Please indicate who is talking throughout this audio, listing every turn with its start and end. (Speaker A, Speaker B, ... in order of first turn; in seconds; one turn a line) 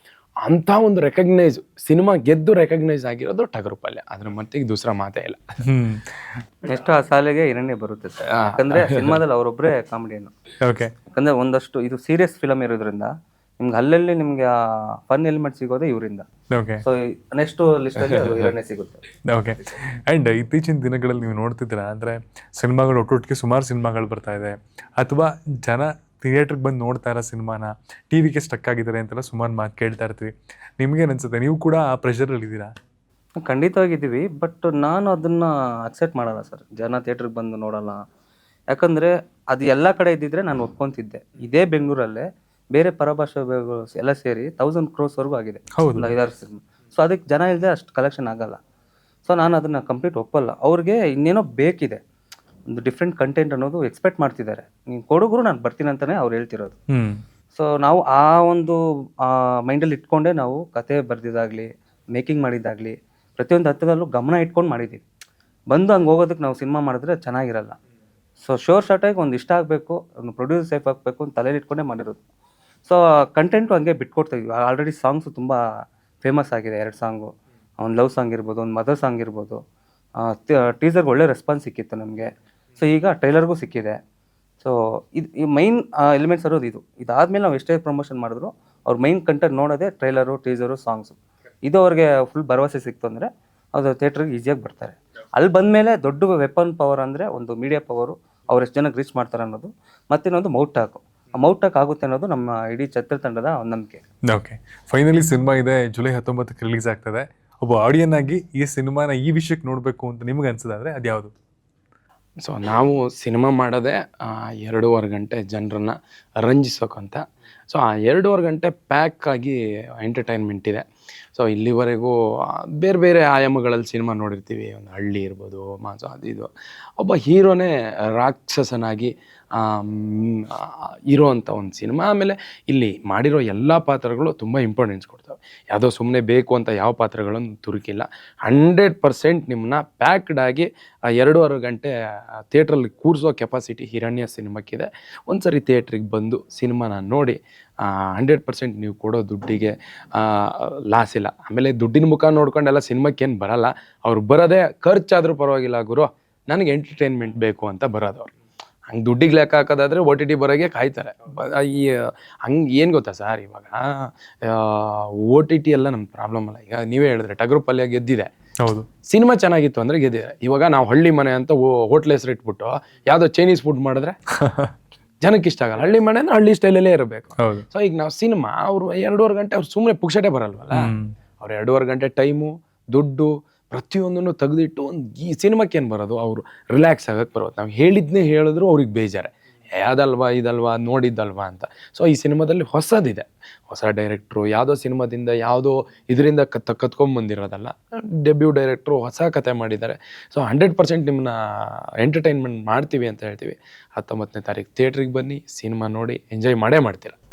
Speaker A: 0.4-5.4
Speaker B: 5.6-6.3
Speaker C: 6.7-10.3
Speaker A: 8.3-9.2
Speaker B: 10.6-10.9
Speaker C: 11.1-14.5
Speaker C: 15.1-16.2
Speaker B: 16.5-16.8
Speaker C: 16.8-19.0
Speaker A: 18.1-18.5
Speaker B: 19.3-32.7
Speaker C: 33.4-38.0
Speaker C: 38.7-48.6
Speaker B: 45.8-46.1
Speaker C: 49.2-52.0
Speaker C: 52.7-56.8
Speaker B: 56.9-57.2
Speaker C: 57.5-65.0
Speaker C: 65.7-67.7
Speaker C: 68.4-72.2
Speaker C: 72.8-75.6
Speaker C: 76.2-79.6
Speaker C: 80.2-84.0
Speaker C: 84.6-104.0
Speaker B: 104.3-111.3
Speaker A: 112.4-141.9
Speaker A: 142.5-158.3
Speaker A: 158.9-168.3
Speaker A: 169.1-174.2
Speaker B: 174.4-174.7
Speaker A: 175.2-207.2
Speaker B: 177.4-177.6
Speaker B: 180.8-181.1